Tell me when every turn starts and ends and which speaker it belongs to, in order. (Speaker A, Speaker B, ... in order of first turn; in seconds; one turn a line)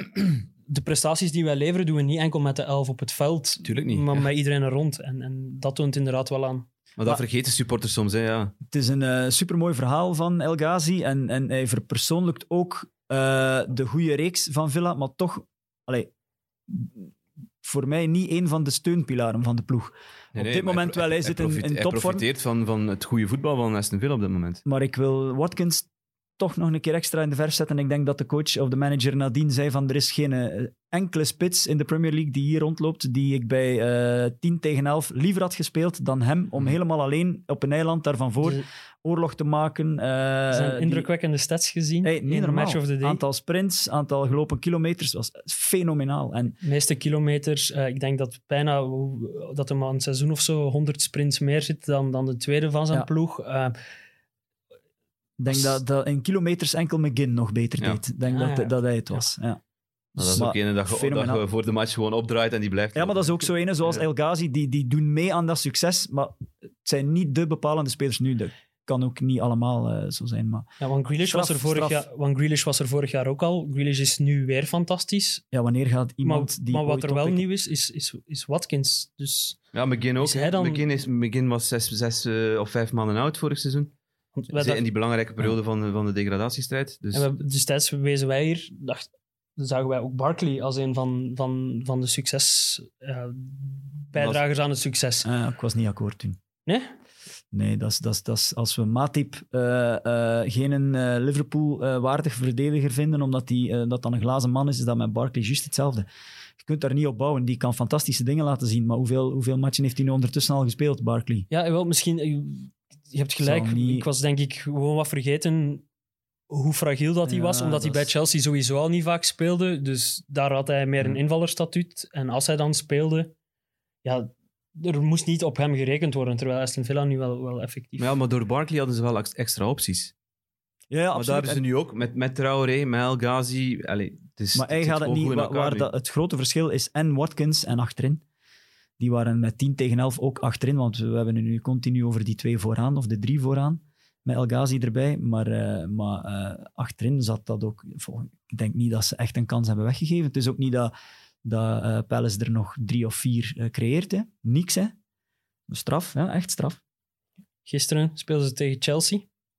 Speaker A: 0.7-6.7
Speaker B: 3.6-4.3
Speaker B: 7.0-8.5
Speaker C: 8.7-16.1
Speaker C: 16.7-17.1
Speaker C: 17.6-22.2
Speaker B: 20.3-24.6
Speaker C: 24.6-41.1
Speaker A: 40.5-43.2
Speaker C: 42.0-46.6
Speaker A: 46.6-53.7
Speaker C: 55.4-59.6
Speaker A: 58.3-59.3
Speaker C: 60.1-61.4
Speaker B: 60.2-63.4
Speaker C: 63.0-70.7
Speaker A: 70.8-75.4
Speaker C: 71.2-72.0
Speaker C: 75.5-77.5
Speaker A: 76.2-79.6
Speaker B: 79.7-83.9
Speaker A: 80.2-80.8
Speaker A: 84.3-84.8
Speaker B: 84.5-87.4
Speaker A: 87.1-89.1
Speaker A: 89.6-95.3
Speaker B: 94.2-94.4
Speaker C: 95.2-96.4
Speaker A: 96.7-96.9
Speaker C: 97.5-106.1
Speaker C: 106.6-111.5
Speaker A: 111.5-115.9
Speaker C: 113.4-114.1
Speaker A: 116.5-123.3
Speaker C: 117.3-118.1
Speaker A: 124.0-128.2
Speaker B: 128.0-130.1
Speaker C: 130.9-131.6
Speaker B: 131.2-135.9
Speaker C: 134.6-138.2
Speaker C: 139.0-150.9
Speaker C: 151.4-154.9
Speaker C: 155.7-156.8
Speaker A: 157.7-159.3